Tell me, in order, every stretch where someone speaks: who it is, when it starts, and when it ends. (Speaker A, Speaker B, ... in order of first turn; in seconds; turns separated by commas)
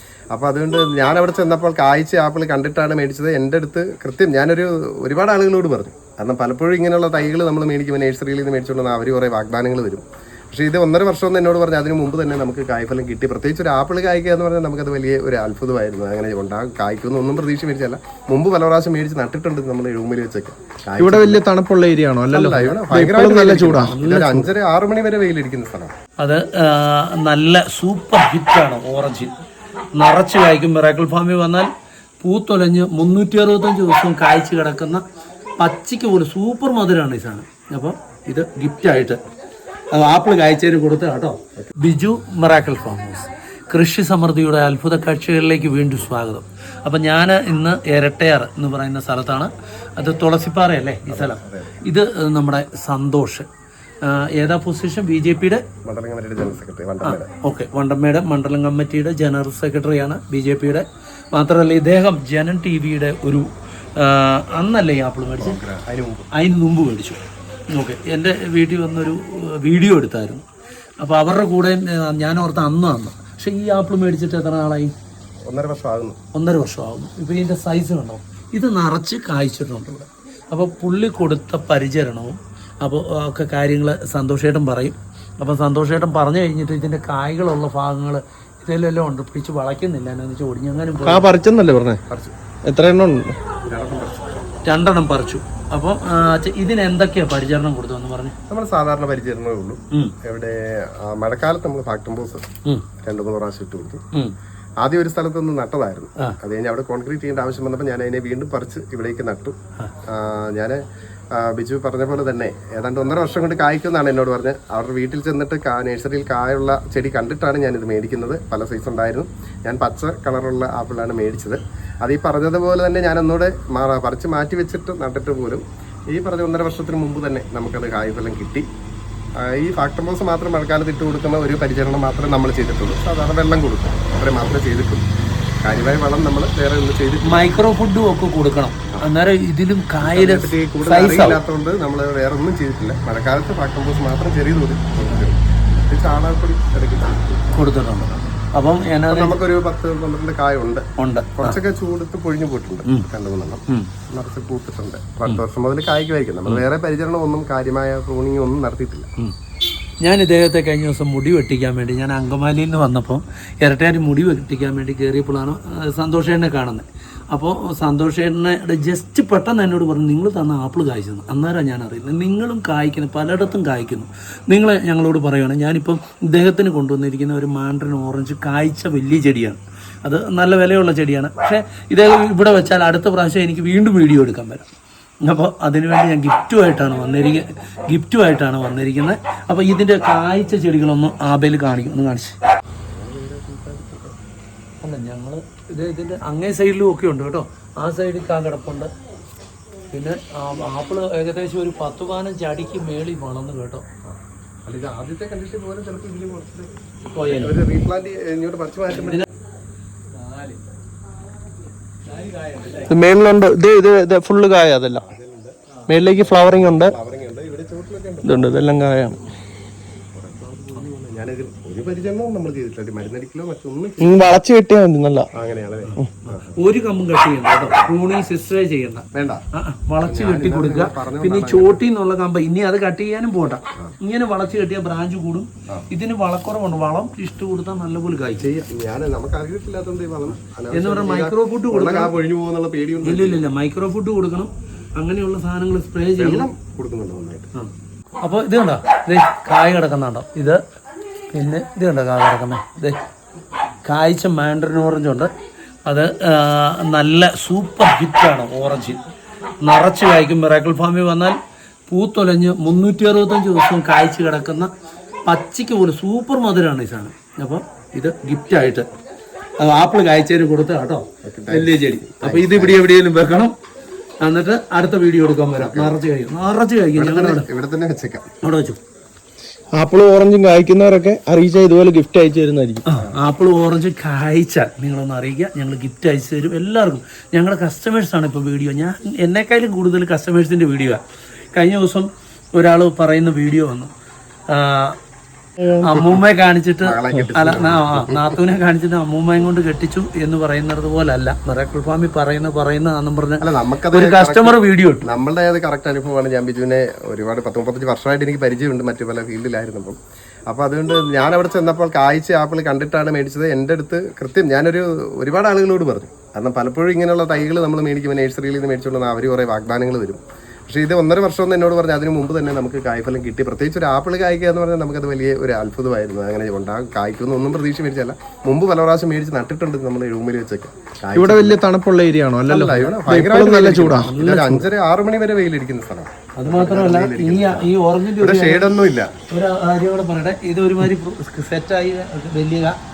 Speaker A: 0.3-21.4, Speaker B: 21.0-24.0, Speaker A: 22.3-25.9, Speaker C: 23.9-24.4, Speaker C: 26.2-29.3, Speaker C: 30.0-31.7, Speaker C: 32.2-35.0, Speaker C: 35.6-39.2, Speaker C: 39.9-53.5, Speaker A: 51.1-51.8, Speaker C: 54.0-55.6, Speaker A: 55.8-57.3, Speaker C: 57.0-65.6, Speaker A: 65.4-66.3, Speaker C: 66.3-67.2, Speaker C: 67.7-70.4, Speaker C: 71.0-74.9, Speaker A: 75.5-76.2, Speaker C: 76.3-91.3, Speaker B: 91.0-92.0, Speaker A: 92.1-92.3, Speaker B: 92.6-93.3, Speaker A: 93.7-94.5, Speaker C: 94.6-98.3, Speaker A: 98.5-102.5, Speaker A: 103.0-104.0, Speaker A: 104.8-110.8, Speaker A: 111.3-128.7, Speaker A: 129.4-135.0, Speaker A: 135.6-137.4, Speaker C: 137.2-141.4, Speaker A: 140.0-147.4, Speaker C: 147.5-149.4, Speaker A: 149.1-150.8, Speaker C: 151.0-151.6, Speaker A: 151.4-159.1, Speaker C: 160.0-184.7, Speaker C: 185.2-192.4, Speaker A: 192.9-194.2, Speaker C: 194.8-198.9, Speaker C: 199.9-203.8, Speaker A: 204.1-206.7, Speaker C: 207.1-207.6, Speaker A: 207.2-209.3, Speaker B: 212.7-215.1, Speaker A: 214.9-215.6, Speaker B: 215.9-216.9, Speaker A: 216.2-218.4, Speaker B: 218.2-219.2, Speaker A: 220.1-224.2, Speaker B: 224.0-225.3, Speaker A: 225.3-226.6, Speaker C: 225.8-238.5, Speaker A: 229.1-229.4, Speaker A: 230.0-231.8, Speaker A: 238.4-243.4, Speaker C: 240.7-242.1, Speaker C: 243.0-246.5, Speaker A: 246.2-247.5, Speaker C: 248.2-250.6, Speaker C: 251.3-253.0, Speaker C: 253.8-255.3, Speaker C: 255.8-259.1, Speaker C: 259.6-261.4, Speaker C: 261.9-264.7, Speaker C: 265.2-268.9, Speaker C: 269.6-273.5, Speaker A: 271.2-272.8, Speaker C: 274.2-277.4, Speaker A: 275.5-276.0, Speaker A: 276.9-278.3, Speaker C: 278.4-278.8, Speaker B: 279.7-282.8, Speaker C: 282.9-291.0, Speaker C: 291.5-293.9, Speaker C: 294.5-295.0, Speaker B: 295.6-296.1, Speaker C: 295.8-305.1, Speaker A: 296.8-298.4, Speaker A: 303.4-310.0, Speaker A: 310.5-331.6, Speaker B: 331.1-334.6, Speaker A: 332.5-339.1, Speaker C: 334.1-334.6, Speaker C: 336.4-338.7, Speaker C: 339.3-342.8